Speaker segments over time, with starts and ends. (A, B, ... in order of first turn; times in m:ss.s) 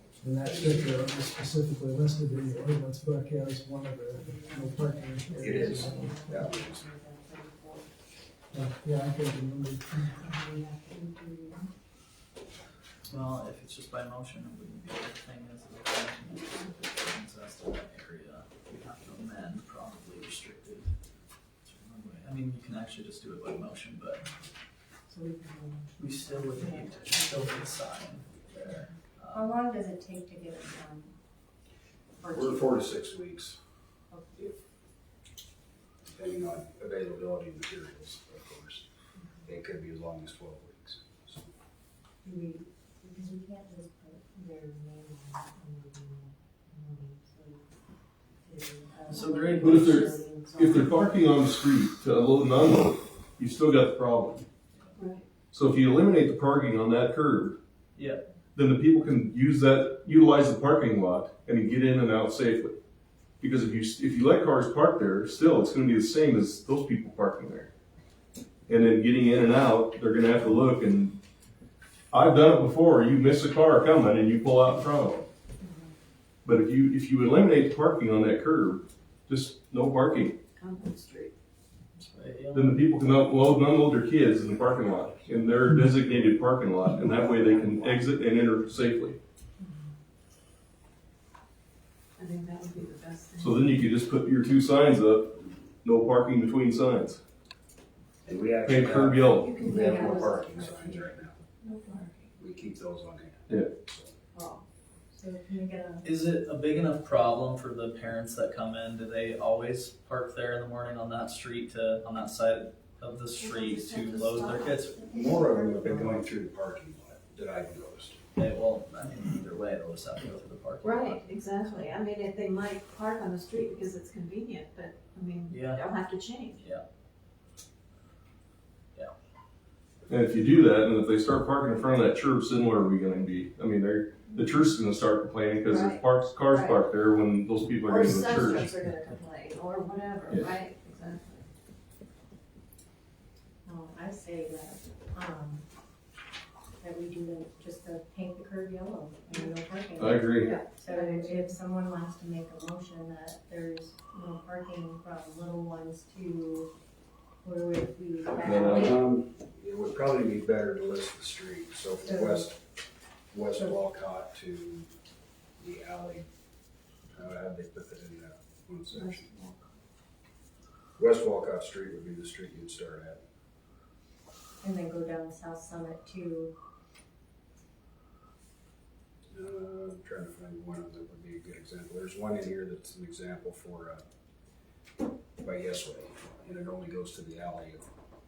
0:00.2-0:06.4 A
0:00.4-0:01.2 B
0:04.1-0:07.9 B
0:05.4-0:06.8 C
0:08.5-0:10.1 A
0:10.2-0:11.7 B
0:13.1-0:20.9 D
0:21.7-0:24.3 D
0:25.1-0:27.7 B
0:26.0-0:29.6 D
0:29.3-0:31.2 B
0:32.2-0:32.9 B
0:32.3-0:33.6 C
0:34.1-0:34.5 B
0:36.0-0:38.8 C
0:39.2-0:39.4 B
0:39.5-0:41.5 C
0:42.2-0:47.7 B
0:48.4-0:51.1 B
0:49.1-0:49.9 D
0:49.6-0:54.4 E
0:55.0-0:55.3 F
0:55.5-0:57.6 E
0:58.0-0:58.2 D
0:58.6-1:02.8 E
1:03.4-1:07.7 E
1:08.7-1:11.2 E
1:12.1-1:15.3 E
1:15.6-1:15.9 B
1:16.4-1:20.3 E
1:20.6-1:21.3 F
1:22.0-1:22.9 D
1:22.5-1:29.2 E
1:27.2-1:27.4 F
1:29.6-1:29.9 B
1:32.2-1:33.8 F
1:33.4-1:37.2 E
1:38.2-1:41.4 C
1:38.6-1:39.5 E
1:39.3-1:42.3 F
1:39.7-1:40.4 B
1:42.4-1:44.1 C
1:44.3-1:44.6 F
1:45.1-1:46.0 B
1:46.0-1:55.0 D
1:53.4-1:54.8 F
1:54.9-1:56.3 B
1:55.1-1:58.2 C
1:58.4-2:01.2 D
2:00.8-2:06.6 F
2:05.5-2:05.8 D
2:06.6-2:06.8 D
2:10.1-2:18.7 E
2:15.7-2:16.8 F
2:17.8-2:21.5 F
2:23.7-2:25.6 B
2:26.8-2:36.7 B
2:30.0-2:30.6 E
2:30.4-2:31.5 F
2:37.4-2:39.0 B
2:38.4-2:38.9 E
2:38.5-2:42.6 C
2:42.0-2:42.4 B
2:43.3-2:44.9 C
2:45.6-2:46.3 C
2:47.2-2:49.3 C
2:48.9-2:49.7 F
2:51.0-2:53.2 C
2:54.6-2:56.6 B
2:59.3-3:04.0 C
3:05.4-3:07.9 C